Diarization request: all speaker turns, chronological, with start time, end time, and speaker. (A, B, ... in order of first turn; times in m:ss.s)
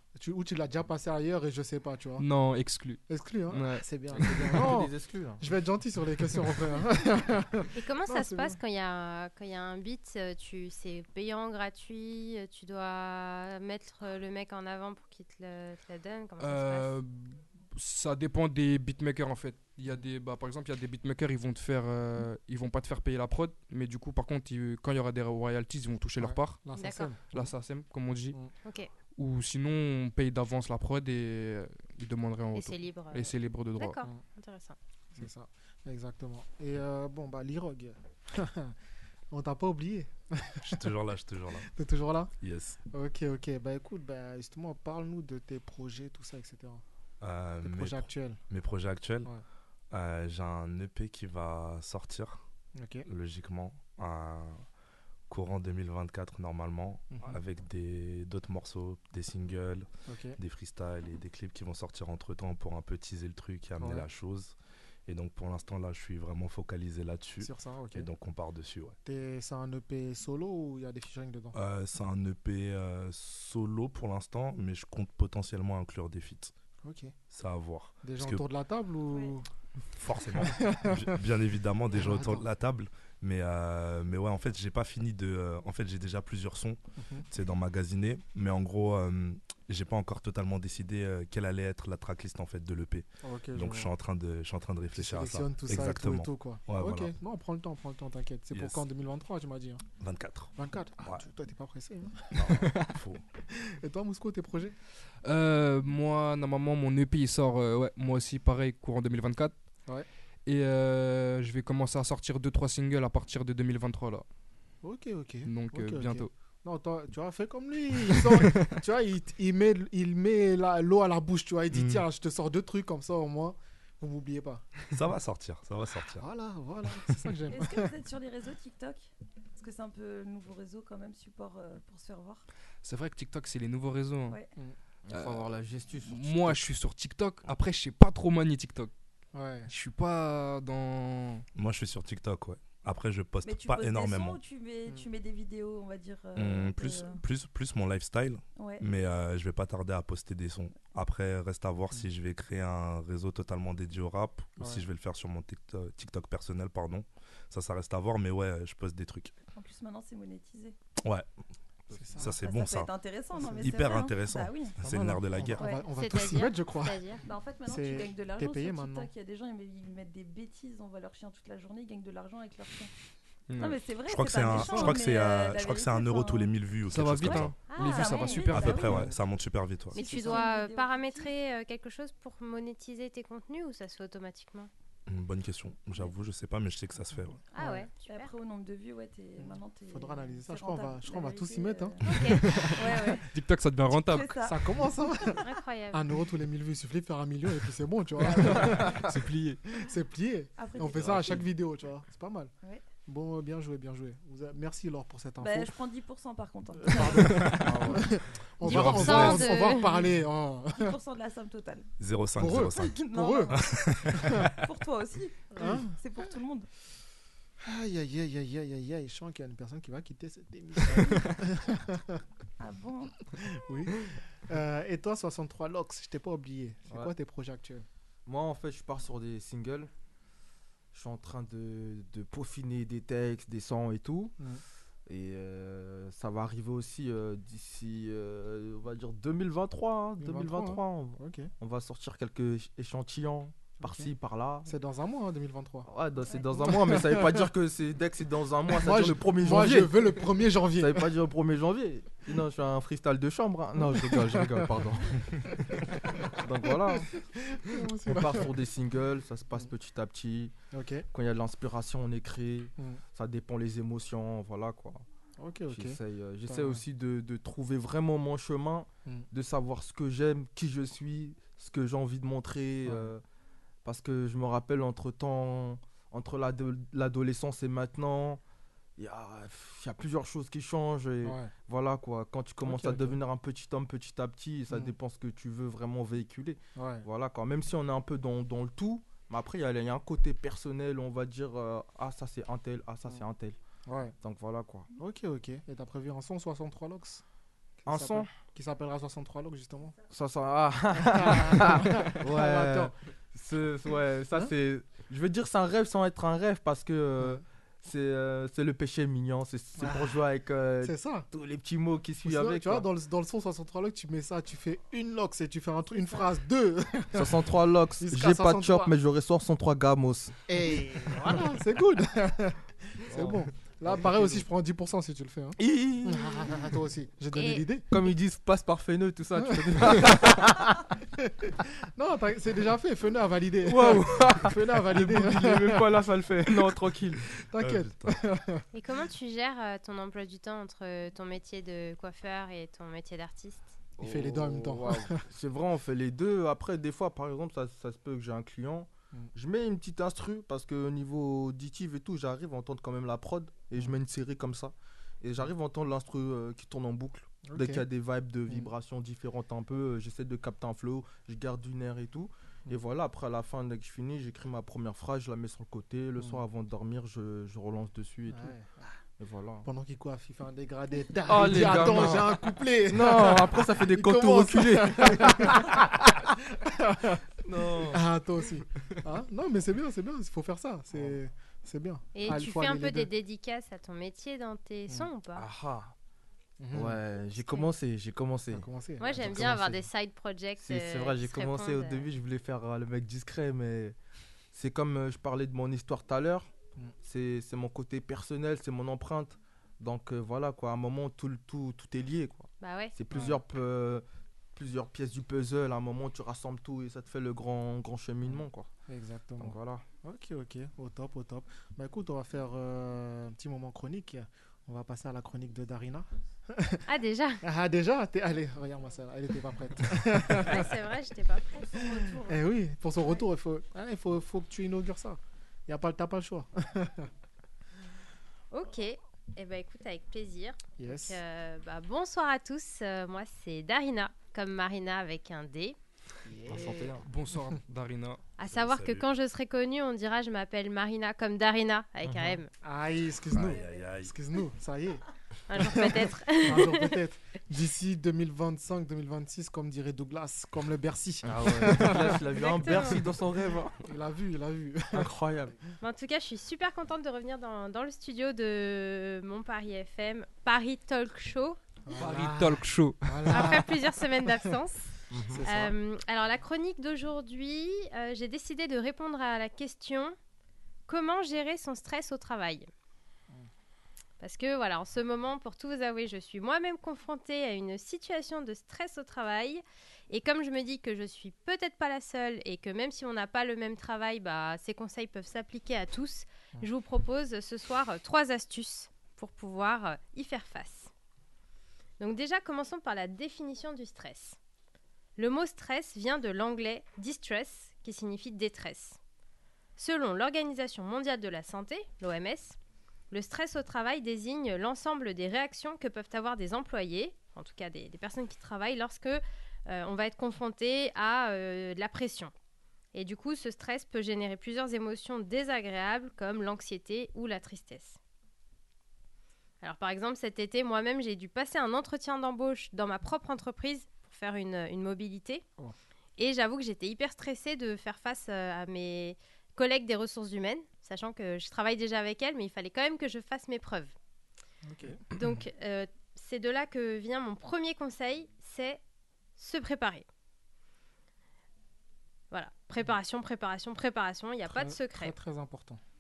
0:00.2-0:02.3 A
0:02.2-0:04.4 B
0:03.1-0:08.6 A
0:04.2-0:05.4 C
0:07.8-0:17.0 D
0:16.4-0:26.6 B
0:26.2-0:27.5 A
0:26.7-0:27.1 D
0:27.3-0:28.4 B
0:28.6-0:28.9 D
0:29.2-0:34.0 B
0:32.5-0:34.8 D
0:35.1-0:38.8 A
0:39.3-0:40.9 A
0:40.6-0:41.7 E
0:41.6-0:42.3 A
0:42.4-0:42.8 E
0:42.9-0:46.8 A
0:47.2-0:49.3 E
0:47.6-0:48.4 A
0:49.9-0:52.4 E
0:52.8-0:53.1 A
0:53.1-0:54.7 E
0:55.3-0:59.9 E
0:57.1-0:57.4 A
1:00.1-1:00.4 A
1:00.4-1:04.6 E
1:03.8-1:04.1 A
1:05.1-1:09.0 E
1:07.4-1:08.1 A
1:09.0-1:11.6 A
1:11.5-1:16.5 E
1:16.8-1:17.2 A
1:17.3-1:18.4 E
1:18.0-1:19.5 A
1:19.1-1:19.4 F
1:20.0-1:37.1 E
1:20.3-1:21.2 A
1:21.9-1:22.5 A
1:27.0-1:27.3 A
1:33.2-1:33.9 A
1:35.0-1:39.8 A
1:38.5-1:38.8 E
1:40.0-1:41.2 E
1:40.6-1:42.7 A
1:42.3-1:43.2 E
1:43.5-1:44.8 A
1:45.2-1:49.6 B
1:50.5-1:54.3 B
1:54.8-2:04.7 A
1:55.5-1:56.3 B
2:01.7-2:02.0 E
2:04.9-2:06.2 E
2:06.2-2:07.9 A
2:07.5-2:12.4 F
2:12.8-2:14.4 B
2:15.0-2:16.6 C
2:15.1-2:15.5 B
2:16.0-2:18.9 B
2:19.3-2:19.7 A
2:19.7-2:21.5 B
2:21.6-2:24.4 E
2:23.4-2:27.2 F
2:26.4-2:39.4 E
2:28.6-2:28.8 F
2:34.6-2:34.8 A
2:39.6-2:40.8 F
2:41.9-2:42.9 E
2:41.9-2:42.4 A
2:42.3-2:44.8 F
2:43.4-2:43.8 A
2:43.6-2:45.7 E
2:44.8-2:47.0 A
2:45.6-2:45.9 F
2:45.9-2:47.2 D
2:47.2-2:52.9 F
2:47.7-2:49.1 A
2:53.5-2:53.8 B
2:53.6-2:56.5 F
2:54.1-2:57.6 E
2:54.5-2:55.0 A
2:56.9-2:59.1 B
2:57.2-2:59.1 F
2:57.7-2:58.5 D
2:58.5-3:00.0 E
2:58.9-2:59.2 A
2:59.9-3:01.3 F
2:59.9-3:04.7 D
3:05.1-3:07.4 E
3:07.5-3:08.3 D
3:07.6-3:07.8 A
3:08.0-3:13.3 F
3:09.4-3:13.1 A
3:12.0-3:13.2 D
3:13.3-3:14.3 B
3:14.0-3:14.9 F
3:14.4-3:19.0 A
3:15.4-3:16.0 D
3:18.2-3:19.6 B
3:19.7-3:22.5 A
3:20.6-3:21.4 F
3:23.1-3:25.7 A
3:25.4-3:27.6 F
3:26.9-3:31.0 A
3:27.3-3:27.7 B
3:27.6-3:28.0 C
3:28.6-3:30.0 D
3:28.6-3:29.5 B
3:30.7-3:31.9 F
3:32.0-3:34.5 E
3:32.4-3:33.6 A
3:32.9-3:33.8 F
3:34.1-3:34.5 A
3:34.6-3:36.7 F
3:35.6-3:36.0 A
3:37.6-3:42.2 A
3:41.0-3:41.2 F
3:42.6-3:43.3 F
3:43.4-3:47.9 A
3:48.3-3:49.9 C
3:50.9-3:54.4 C
3:55.1-4:04.7 C
4:00.2-4:01.5 A
4:03.8-4:04.1 A
4:04.6-4:05.9 A
4:05.9-4:10.2 C
4:06.6-4:07.5 A
4:08.7-4:11.1 A
4:10.8-4:15.6 C
4:13.9-4:14.6 A
4:15.5-4:16.2 A
4:16.2-4:17.2 C
4:16.9-4:18.5 A
4:17.8-4:20.5 C
4:20.7-4:21.1 A
4:21.1-4:25.0 C
4:25.4-4:26.8 A
4:25.7-4:33.2 C
4:32.8-4:33.1 A
4:33.8-4:38.4 C
4:39.0-4:53.6 C
4:41.2-4:41.5 A
4:42.6-4:43.2 A
4:44.7-4:45.0 A
4:46.8-4:47.1 A
4:53.9-4:54.1 A
4:54.2-4:54.9 C
4:55.0-4:57.2 A
4:57.8-5:00.0 A
4:57.9-4:58.3 C
5:00.1-5:12.9 C
5:00.9-5:02.9 A
5:09.8-5:10.2 A
5:10.8-5:11.3 A
5:12.2-5:17.4 A
5:17.1-5:20.4 C
5:18.0-5:18.9 A
5:20.5-5:27.8 A
5:23.1-5:24.4 C
5:25.6-5:26.6 C
5:27.4-5:27.7 D
5:27.9-5:30.8 C
5:29.4-5:30.4 A
5:31.2-5:36.0 A
5:33.6-5:37.3 C
5:37.4-5:38.6 A
5:37.6-5:38.2 E
5:38.7-5:43.8 D
5:44.0-5:45.2 A
5:44.0-6:08.6 C
5:57.5-5:57.9 A
6:08.3-6:08.9 A
6:09.2-6:09.7 C
6:09.6-6:17.2 A
6:11.3-6:15.8 C
6:17.4-6:18.0 C
6:17.9-6:23.1 A
6:22.2-6:25.5 D
6:25.4-6:25.9 C
6:26.6-6:27.0 A
6:26.7-6:29.6 C
6:27.4-6:27.7 D
6:28.5-6:29.8 A
6:29.0-6:32.1 D
6:30.6-6:34.0 C
6:34.5-6:36.5 C
6:37.0-6:48.7 C
6:42.6-6:43.0 D
6:43.1-6:43.4 A
6:48.3-6:56.8 A
6:49.4-6:49.8 C
6:56.9-6:57.4 D
6:57.4-7:00.7 A
7:00.4-7:01.8 D
7:01.5-7:03.2 F
7:01.9-7:07.1 A
7:08.5-7:15.8 D
7:10.8-7:11.2 A
7:16.4-7:16.9 A
7:16.5-7:18.2 B
7:18.4-7:22.5 D
7:18.5-7:19.1 E
7:22.6-7:25.0 A
7:23.3-7:24.1 E
7:23.4-7:23.8 F
7:25.5-7:27.0 D
7:25.5-7:32.3 A
7:31.2-7:33.8 C
7:32.2-7:33.1 D
7:33.8-7:35.1 A
7:34.9-7:35.6 C
7:35.8-7:41.6 D
7:41.9-7:44.6 A
7:42.0-7:43.5 B
7:43.3-7:44.9 D
7:45.1-7:45.4 C
7:45.3-7:45.8 A
7:45.4-7:50.2 D
7:50.9-7:52.7 D
7:54.2-8:10.9 D
8:12.0-8:14.4 D
8:15.2-8:19.0 D
8:19.8-8:22.6 D
8:23.1-8:32.3 D
8:32.9-8:38.0 D
8:39.6-8:45.4 D
8:46.2-8:54.0 D
8:54.7-8:55.2 A
8:55.1-8:58.8 D
8:59.4-9:00.0 D
9:02.3-9:05.2 D
9:04.5-9:05.8 A